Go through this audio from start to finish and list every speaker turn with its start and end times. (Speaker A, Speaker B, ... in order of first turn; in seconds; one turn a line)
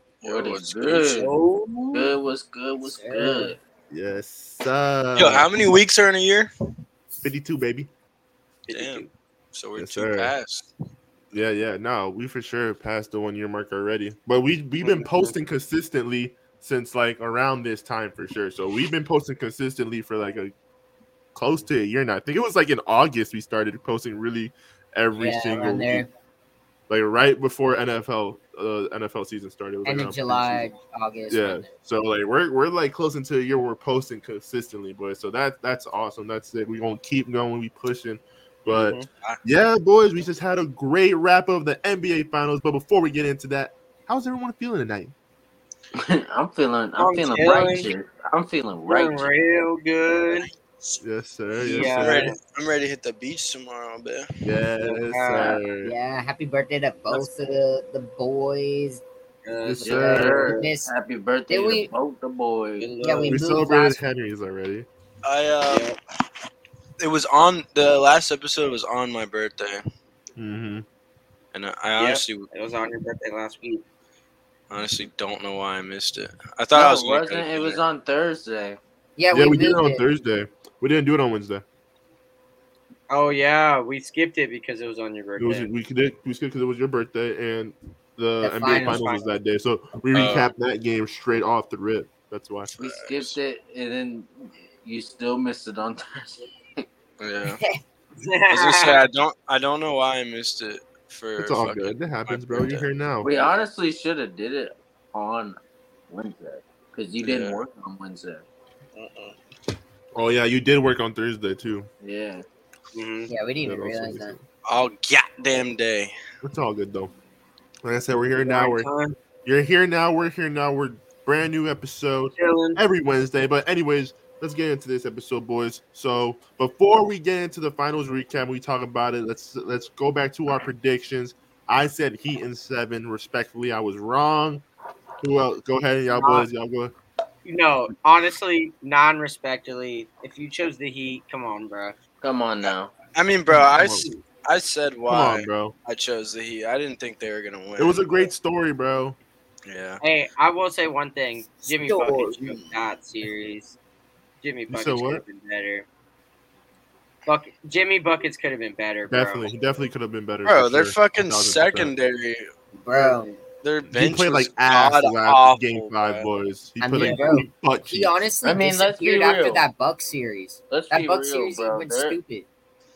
Speaker A: 0.2-1.2
Speaker B: 0.2-1.4
Speaker C: 1.1-2.2
Speaker B: 1.9-3.6
Speaker D: 2.8-3.5
Speaker E: 3.9-5.5
Speaker A: 5.2-6.5
Speaker E: 7.2-7.9
Speaker C: 8.7-9.1
Speaker A: 8.7-10.7
Speaker E: 9.8-10.3
Speaker E: 11.3-20.5
Speaker C: 14.8-15.3
Speaker E: 21.3-26.0
Speaker D: 25.1-26.1
Speaker E: 26.9-30.7
Speaker D: 29.8-31.7
Speaker E: 31.3-45.1
Speaker C: 38.7-39.1
Speaker B: 45.9-49.3
Speaker C: 47.0-47.9
Speaker C: 48.9-50.5
Speaker E: 51.0-52.3
Speaker C: 51.6-52.4
Speaker A: 51.9-54.2
Speaker E: 54.4-55.9
Speaker C: 54.8-55.6
Speaker D: 55.8-59.0
Speaker C: 59.4-60.7
Speaker E: 59.6-60.3
Speaker D: 59.8-60.9
Speaker B: 59.9-62.9
Speaker D: 61.5-61.9
Speaker C: 62.8-63.4
Speaker D: 63.0-64.0
Speaker E: 63.3-64.9
Speaker A: 65.2-65.9
Speaker C: 65.7-66.0
Speaker A: 67.0-69.8
Speaker E: 70.4-70.8
Speaker A: 71.5-72.5
Speaker C: 72.0-73.8
Speaker A: 74.7-77.8
Speaker B: 76.7-78.8
Speaker D: 79.2-80.0
Speaker E: 79.3-81.6
Speaker C: 83.1-85.7
Speaker E: 85.4-92.7
Speaker D: 88.4-89.0
Speaker C: 88.6-89.2
Speaker A: 90.1-90.5
Speaker A: 92.7-93.3
Speaker B: 92.8-96.8
Speaker A: 97.2-97.6
Speaker C: 98.2-99.0
Speaker A: 98.5-102.8
Speaker E: 101.4-103.3
Speaker B: 103.2-108.5
Speaker A: 107.2-107.6
Speaker A: 108.9-109.3
Speaker E: 110.1-111.9
Speaker B: 112.0-112.4
Speaker C: 112.9-113.3
Speaker D: 113.3-114.3
Speaker E: 113.6-114.4
Speaker A: 114.7-116.1
Speaker E: 116.4-117.1
Speaker E: 117.8-118.9
Speaker C: 118.4-119.1
Speaker E: 119.4-134.6
Speaker C: 122.4-122.8
Speaker E: 135.2-136.9
Speaker C: 136.1-136.5
Speaker C: 137.4-142.0
Speaker B: 142.2-142.9
Speaker A: 142.6-148.0
Speaker E: 143.5-144.1
Speaker E: 145.1-145.7
Speaker E: 147.8-149.2
Speaker A: 149.7-150.0
Speaker C: 150.0-153.8
Speaker D: 151.6-152.8
Speaker C: 154.4-155.8
Speaker E: 154.7-155.2
Speaker C: 157.2-159.5
Speaker E: 159.1-161.9
Speaker A: 160.4-162.5
Speaker D: 162.8-163.4
Speaker A: 163.6-166.3
Speaker E: 163.8-168.2
Speaker D: 166.8-172.5
Speaker C: 167.0-167.4
Speaker B: 168.4-169.7
Speaker B: 170.7-172.2